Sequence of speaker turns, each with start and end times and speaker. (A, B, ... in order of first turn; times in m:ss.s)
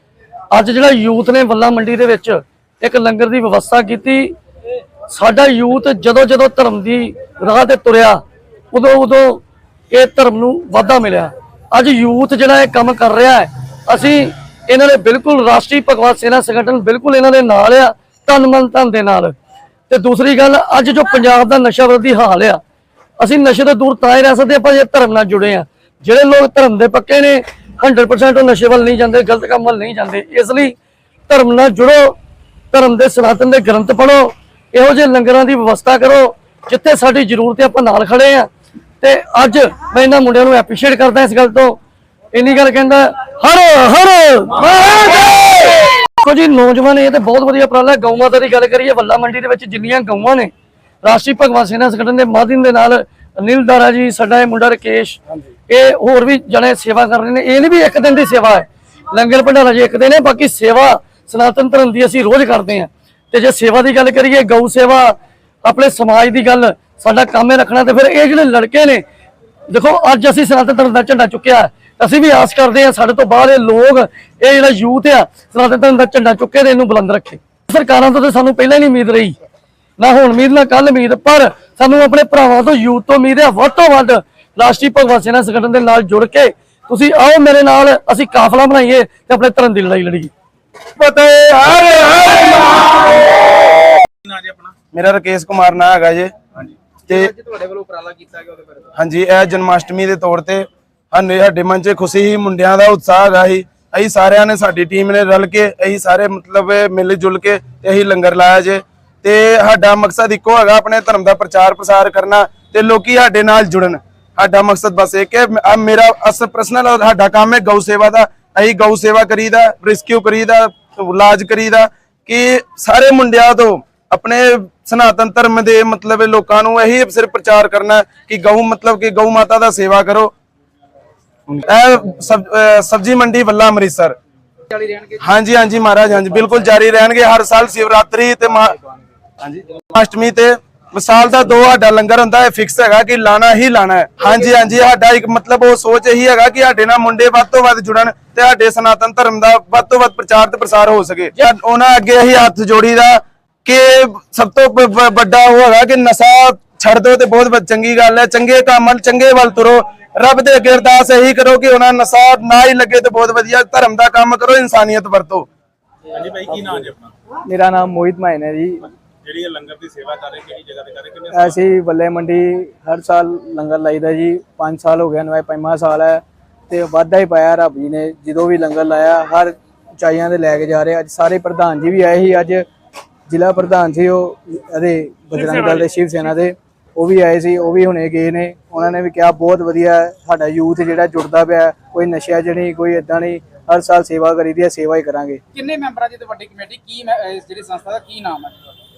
0:00.5-0:04.3 A
0:05.1-0:19.3 A
0:19.9-0:22.6 A
0:23.2-0:30.7 A
0:31.3-0:32.2 A
0:32.7-0:38.5 A
0:39.0-0:41.8 A
0:42.3-0:50.5 A
0:51.0-1:09.0 A
1:09.7-1:19.4 A
1:20.0-1:30.3 A
1:31.0-1:33.6 B
1:34.9-1:36.3 B
1:37.1-1:38.9 C
1:39.0-2:10.3 B
2:11.5-2:14.2 B
2:14.7-2:15.2 C
2:15.2-2:18.8 B
2:19.4-2:45.5 B
2:46.1-2:47.1 D
2:47.5-2:48.9 E
2:49.2-2:51.6 D
2:51.3-3:02.6 E
3:03.3-3:15.4 E
3:15.5-3:18.6 C